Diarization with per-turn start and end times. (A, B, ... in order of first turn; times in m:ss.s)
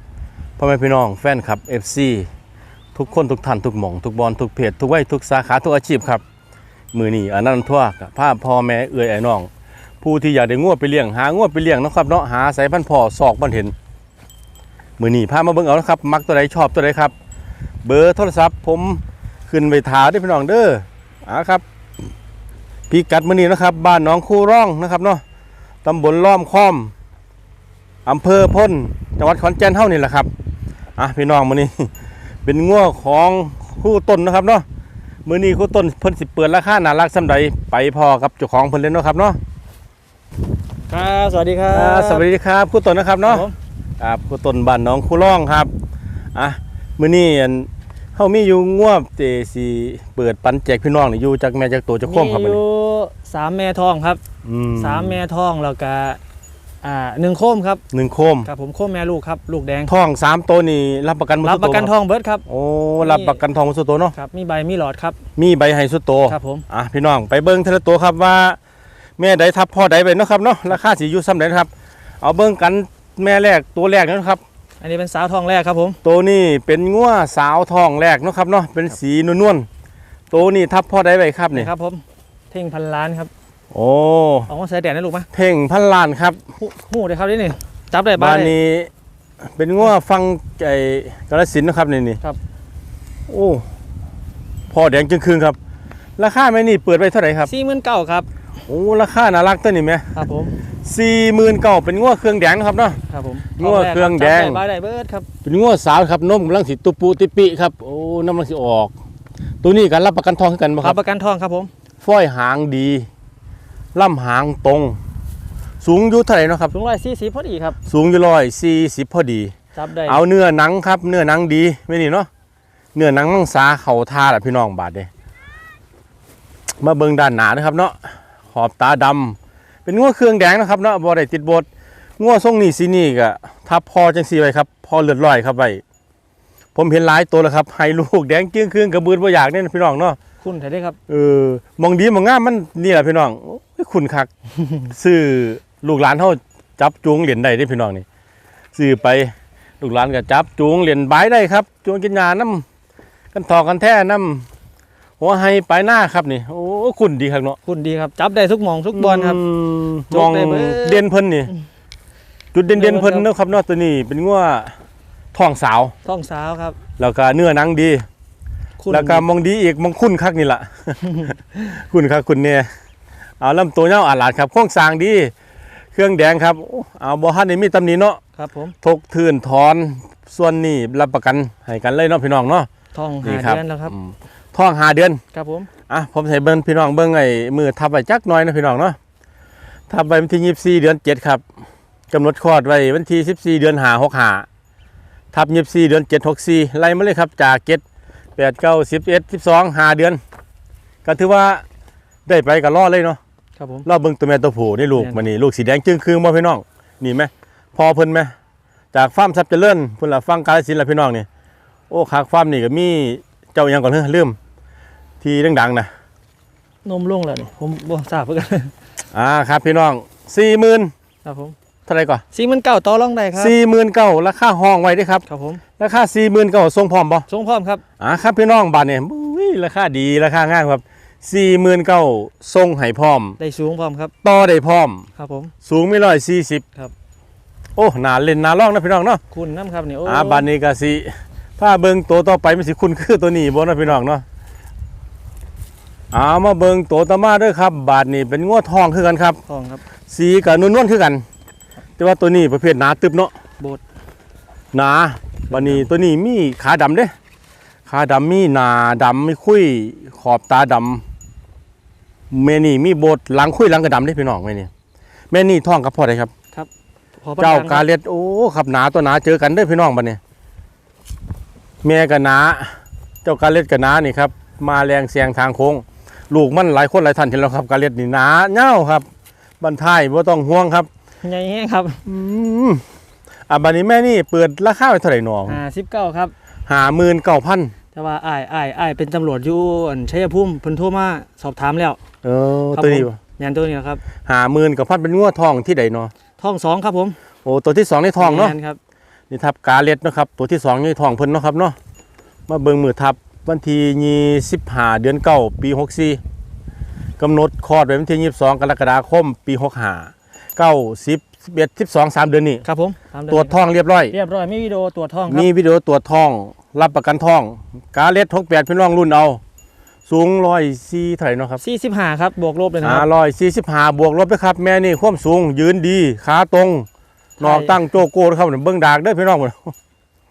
0:00.6-0:02.3 A
0:02.9-0:06.2 A
0:06.9-0:09.5 A
0:10.0-0:13.7 A
0:15.0-0:17.1 A
0:17.8-0:21.6 A
0:22.9-0:25.2 A
0:25.8-0:26.9 A
0:28.0-0:30.3 A
0:31.0-0:31.9 A
0:32.4-0:34.6 A
0:35.2-0:39.4 A
0:40.9-0:42.2 B
0:41.7-0:43.4 A
0:43.2-0:43.5 B
0:44.0-0:45.7 A
0:46.3-0:52.6 A
0:52.0-0:54.2 B
0:54.4-0:55.2 A
0:54.8-0:56.2 B
0:56.8-0:57.8 B
0:57.9-0:58.5 A
0:58.4-0:59.9 B
0:59.9-1:01.9 A
1:01.4-1:02.4 B
1:02.5-1:04.1 A
1:03.0-1:03.4 B
1:04.1-1:05.2 B
1:05.4-1:08.6 A
1:06.3-1:06.6 B
1:09.2-1:11.7 A
1:12.2-1:14.4 A
1:14.8-1:16.0 B
1:16.0-1:19.7 A
1:20.3-1:21.7 A
1:21.5-1:23.3 B
1:23.7-1:24.5 A
1:24.5-1:25.3 B
1:25.3-1:26.4 A
1:26.6-1:28.5 B
1:28.2-1:28.9 A
1:29.4-1:32.2 A
1:33.3-1:33.6 A
1:34.7-1:35.6 A
1:36.2-1:37.5 A
1:37.4-1:38.3 B
1:38.7-1:40.2 A
1:40.1-1:40.6 B
1:40.8-1:43.0 A
1:43.1-1:45.3 B
1:43.6-1:44.6 A
1:45.4-1:48.9 A
1:49.6-1:51.0 A
1:50.8-1:51.7 B
1:52.0-1:53.1 A
1:53.9-1:55.0 A
1:55.8-1:56.7 A
1:56.7-1:57.8 B
1:57.8-1:59.5 A
1:59.7-2:00.2 B
2:00.0-2:02.3 A
2:02.9-2:05.1 A
2:06.8-2:11.7 A
2:12.2-2:15.8 A
2:16.7-2:20.2 A
2:20.4-2:21.0 B
2:21.1-2:24.3 A
2:24.8-2:28.0 A
2:28.7-2:32.6 A
2:33.3-2:34.5 A
2:35.2-2:37.6 A
2:37.6-2:39.4 B
2:38.9-2:41.5 A
2:40.1-2:41.6 B
2:42.5-2:44.7 A
2:42.7-2:43.2 B
2:45.3-2:45.9 A
2:46.0-2:46.8 B
2:47.0-2:48.0 A
2:48.8-2:49.2 B
2:48.9-2:52.7 A
2:53.4-2:55.3 A
2:55.9-2:58.2 A
2:58.4-2:58.7 B
2:58.8-3:02.7 A
3:02.9-3:03.9 B
3:03.2-3:05.2 A
3:05.3-3:05.7 B
3:05.9-3:09.0 A
3:09.9-3:11.4 A
3:12.1-3:14.4 A
3:15.3-3:17.8 A
3:18.4-3:20.2 A
3:21.0-3:21.6 A
3:22.2-3:23.2 A
3:23.6-3:23.8 B
3:23.8-3:28.3 A
3:24.9-3:25.2 B
3:28.9-3:31.2 A
3:31.9-3:34.4 A
3:35.2-3:35.9 A
3:36.8-3:38.7 B
3:39.1-3:40.9 A
3:41.2-3:41.5 B
3:41.9-3:42.2 A
3:42.3-3:43.5 B
3:43.4-3:45.2 A
3:45.3-3:45.6 B
3:45.8-3:47.3 A
3:47.3-3:47.8 B
3:48.0-3:53.4 A
3:53.4-3:54.1 B
3:54.2-3:55.1 A
3:55.2-3:55.5 B
3:55.6-3:56.6 A
3:57.8-3:59.2 A
3:59.3-4:00.5 B
4:00.0-4:04.2 A
4:06.1-4:09.4 A
4:09.5-4:09.8 B
4:10.1-4:11.2 A
4:12.0-4:13.3 A
4:14.7-4:17.1 A
4:15.5-4:15.9 B
4:17.9-4:21.0 A
4:22.3-4:24.7 A
4:25.3-4:26.3 A
4:27.2-4:27.8 B
4:27.4-4:30.2 A
4:31.8-4:39.1 A
4:39.6-4:40.9 A
4:41.2-4:42.0 B
4:42.0-4:42.8 A
4:43.5-4:45.6 A
4:45.5-4:46.3 B
4:46.7-4:47.7 A
4:47.9-4:52.0 B
4:52.2-4:53.2 A
4:52.7-4:54.0 B
4:54.2-4:56.1 A
4:56.4-4:57.2 B
4:57.4-4:58.5 A
4:58.2-4:58.8 B
4:59.3-5:01.8 A
5:02.5-5:06.2 A
5:07.2-5:12.6 A
5:12.6-5:13.5 B
5:13.3-5:14.1 A
5:14.1-5:15.5 B
5:15.3-5:19.4 A
5:20.1-5:21.6 A
5:21.6-5:23.1 B
5:22.8-5:26.8 A
5:27.4-5:27.8 B
5:27.4-5:29.7 A